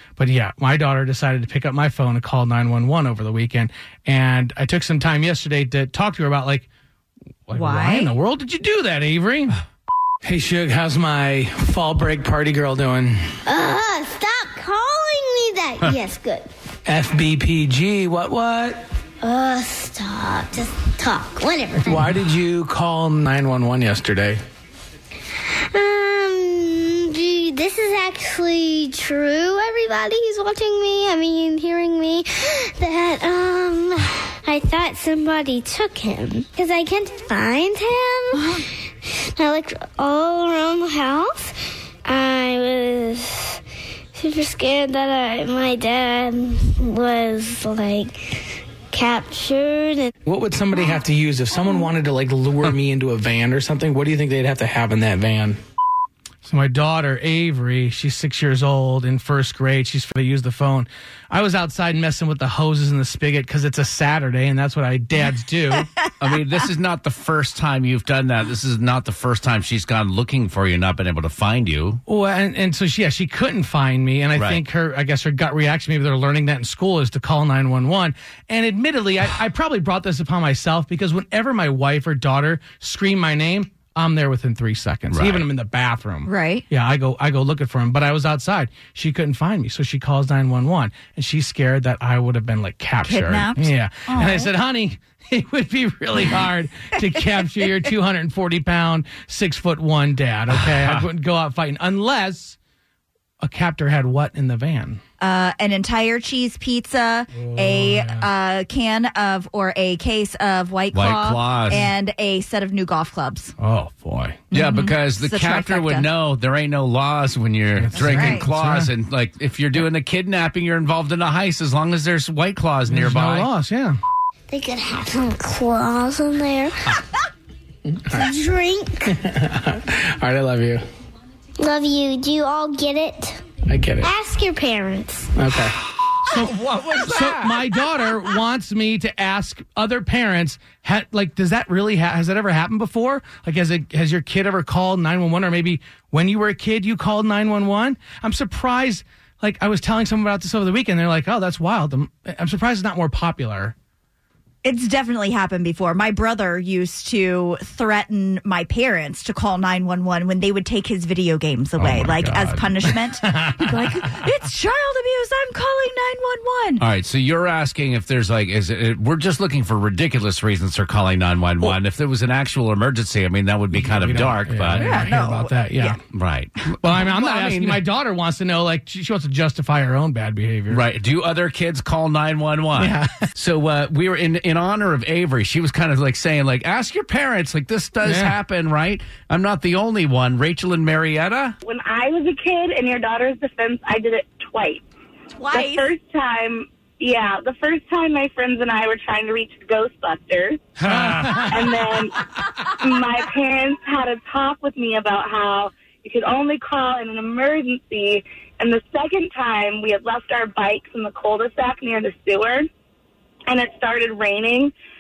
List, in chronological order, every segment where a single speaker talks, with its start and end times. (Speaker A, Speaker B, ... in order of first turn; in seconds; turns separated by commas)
Speaker A: 0.2-6.7, Speaker A: 7.5-9.6, Speaker B: 7.5-8.1, Speaker A: 10.2-13.2, Speaker C: 13.5-16.5, Speaker A: 16.9-18.8, Speaker C: 19.2-22.2, Speaker A: 21.8-24.4, Speaker C: 25.7-43.6, Speaker B: 38.3-38.6, Speaker C: 44.1-50.1, Speaker A: 50.2-55.6, Speaker A: 56.4-65.9, Speaker D: 66.2-72.0, Speaker A: 72.1-102.6, Speaker D: 85.1-85.4, Speaker B: 86.3-86.7, Speaker B: 93.0-94.5, Speaker D: 100.5-101.0, Speaker A: 103.4-105.0, Speaker B: 105.2-113.5, Speaker A: 107.4-108.3, Speaker D: 110.9-111.9, Speaker A: 113.6-114.4, Speaker B: 114.5-116.1, Speaker D: 114.5-123.5, Speaker A: 117.8-118.9, Speaker B: 117.9-118.5, Speaker A: 122.9-124.0, Speaker C: 124.5-126.8, Speaker C: 128.1-129.2, Speaker A: 129.1-130.8, Speaker C: 131.6-133.4, Speaker A: 133.7-134.1, Speaker C: 134.0-135.3, Speaker A: 135.4-135.8, Speaker A: 136.3-153.7, Speaker D: 136.3-137.6, Speaker B: 154.6-166.8, Speaker D: 161.8-162.7, Speaker A: 162.9-163.8, Speaker D: 166.8-175.1, Speaker A: 173.7-176.0, Speaker B: 174.8-176.0, Speaker D: 176.1-177.8, Speaker A: 176.8-180.8, Speaker D: 180.7-191.6, Speaker A: 182.8-183.3, Speaker A: 188.0-188.4, Speaker E: 191.6-194.8, Speaker B: 195.4-195.9, Speaker E: 195.5-200.6, Speaker A: 200.8-201.8, Speaker D: 200.9-201.2, Speaker E: 201.5-202.2, Speaker E: 202.7-212.7, Speaker E: 213.5-214.7